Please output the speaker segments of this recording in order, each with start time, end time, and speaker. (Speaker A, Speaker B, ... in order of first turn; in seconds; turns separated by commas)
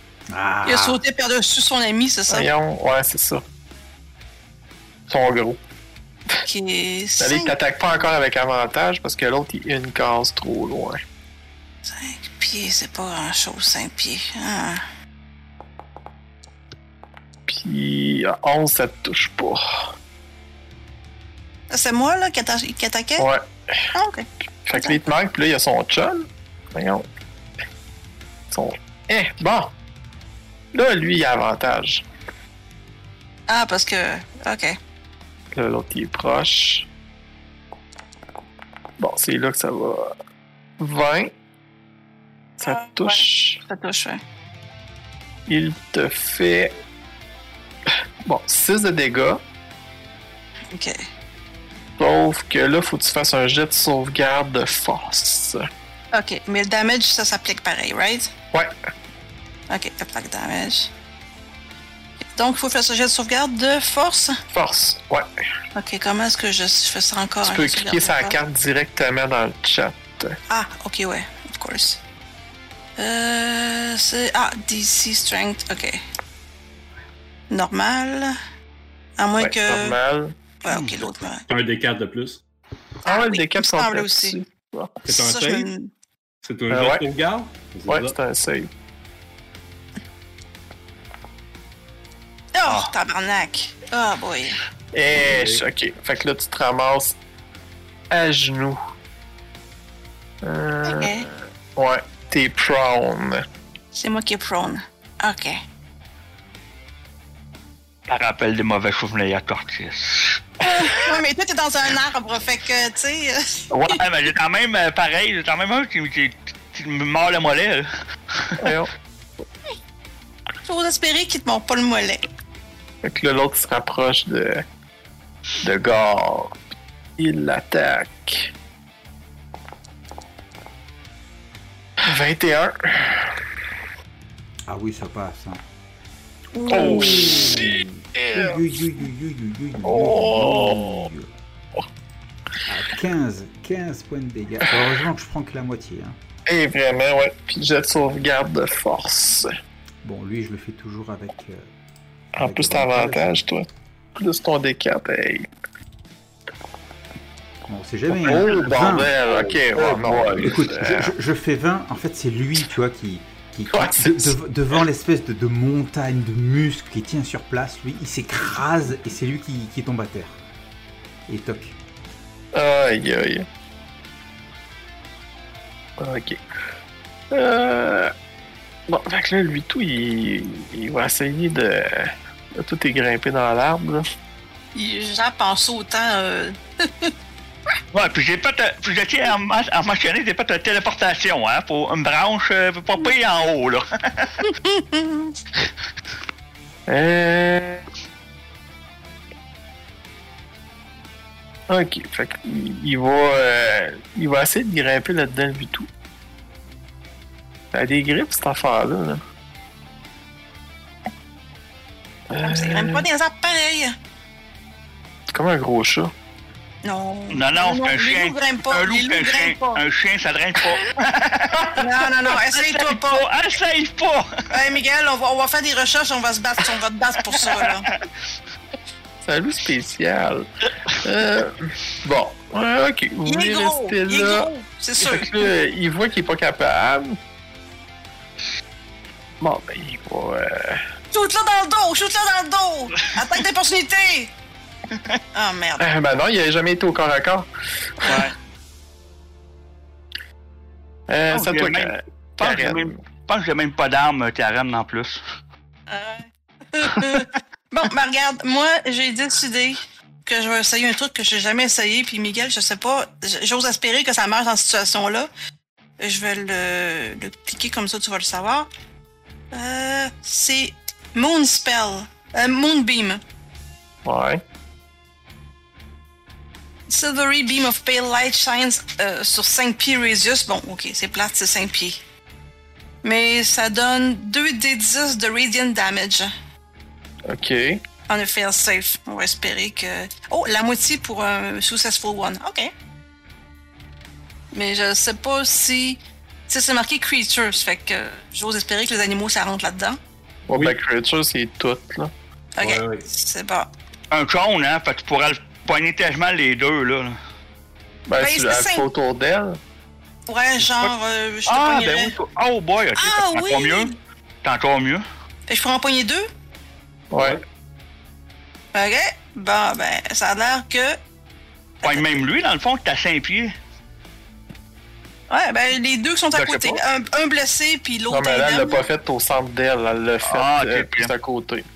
Speaker A: 0.3-1.0, Speaker B: 0.6-2.5, Speaker C: 2.3-3.4, Speaker C: 5.1-5.6, Speaker B: 6.4-7.5, Speaker C: 7.2-11.0, Speaker B: 11.8-14.8, Speaker C: 17.5-19.9, Speaker B: 21.7-23.3, Speaker C: 23.2-23.9, Speaker B: 23.9-24.9, Speaker C: 24.6-27.1, Speaker C: 28.5-29.7, Speaker C: 30.7-32.0, Speaker B: 33.5-34.8, Speaker C: 35.5-36.9, Speaker C: 39.0-40.1, Speaker C: 40.8-41.3, Speaker B: 42.6-44.2, Speaker C: 42.6-43.6, Speaker C: 45.5-46.7, Speaker C: 48.2-49.4, Speaker B: 50.7-51.0, Speaker C: 52.0-55.6, Speaker B: 56.1-58.3, Speaker B: 59.7-60.9, Speaker B: 62.3-64.4, Speaker C: 64.5-65.3, Speaker B: 65.7-68.4, Speaker C: 67.4-70.4, Speaker B: 70.5-72.0, Speaker B: 73.0-76.0, Speaker B: 77.5-78.4, Speaker B: 79.2-80.0, Speaker C: 79.4-80.3, Speaker B: 80.6-81.4, Speaker D: 80.7-81.1, Speaker E: 81.5-82.4, Speaker C: 83.0-85.0, Speaker B: 83.0-84.4, Speaker B: 85.0-85.9, Speaker E: 85.0-85.7, Speaker E: 86.4-88.2, Speaker C: 86.7-87.0, Speaker C: 87.9-88.7, Speaker B: 92.5-94.6, Speaker D: 92.7-92.9, Speaker C: 94.9-97.1, Speaker E: 95.1-95.6, Speaker C: 98.1-98.8, Speaker C: 100.4-103.4, Speaker B: 100.8-101.3, Speaker B: 103.9-105.6, Speaker D: 108.1-110.4, Speaker B: 110.6-114.0, Speaker C: 113.7-114.0, Speaker D: 113.9-118.7, Speaker C: 118.6-118.9, Speaker B: 120.6-122.2, Speaker C: 123.0-124.6, Speaker C: 125.6-126.5, Speaker C: 127.2-128.5, Speaker C: 132.0-133.3, Speaker A: 134.7-135.6, Speaker B: 136.5-137.6, Speaker C: 136.7-138.6, Speaker A: 136.7-141.3, Speaker C: 139.8-141.1, Speaker A: 142.7-146.2, Speaker C: 146.5-149.5, Speaker A: 150.0-151.7, Speaker A: 152.4-153.4, Speaker C: 152.4-155.5, Speaker A: 157.7-170.4, Speaker C: 158.1-161.1, Speaker E: 159.8-160.2, Speaker C: 163.7-164.4, Speaker A: 171.3-171.8, Speaker C: 172.5-173.5, Speaker C: 176.0-176.4, Speaker C: 177.3-178.1, Speaker C: 178.9-184.0, Speaker B: 184.7-187.1, Speaker D: 187.9-194.5, Speaker B: 194.4-195.3, Speaker C: 196.9-197.8, Speaker C: 201.7-205.9, Speaker C: 207.7-209.2, Speaker C: 212.3-213.1, Speaker B: 212.4-213.9, Speaker C: 215.3-216.1, Speaker B: 216.8-219.8, Speaker D: 217.3-224.3, Speaker B: 221.7-223.3, Speaker B: 224.5-227.9, Speaker D: 227.3-228.1, Speaker C: 229.2-230.5, Speaker C: 231.0-234.5, Speaker B: 233.2-235.3, Speaker C: 235.1-237.2, Speaker C: 239.4-240.8, Speaker B: 241.1-244.3, Speaker B: 245.3-245.9, Speaker C: 245.8-247.5, Speaker B: 248.0-248.3, Speaker D: 248.1-248.3, Speaker C: 251.1-252.9, Speaker D: 251.3-255.2, Speaker B: 255.9-265.3, Speaker B: 266.0-268.7, Speaker B: 269.5-273.2, Speaker C: 274.1-274.4, Speaker B: 276.9-282.0, Speaker B: 283.0-286.3, Speaker C: 287.3-287.8, Speaker B: 288.1-292.7, Speaker B: 294.5-300.0, Speaker C: 300.5-302.1, Speaker E: 300.5-300.8, Speaker B: 302.6-303.7, Speaker E: 302.6-303.1, Speaker D: 304.1-307.2, Speaker C: 308.1-309.6, Speaker B: 308.2-308.9, Speaker B: 310.3-312.1, Speaker D: 310.6-310.9, Speaker D: 311.5-313.9, Speaker B: 312.9-313.9, Speaker D: 314.4-315.1, Speaker B: 315.5-316.3, Speaker C: 317.1-317.4, Speaker E: 317.1-317.4, Speaker B: 318.7-321.0, Speaker B: 321.8-322.2, Speaker D: 321.8-323.5, Speaker B: 325.3-328.8, Speaker C: 326.3-326.8, Speaker C: 328.1-331.6, Speaker D: 330.2-331.1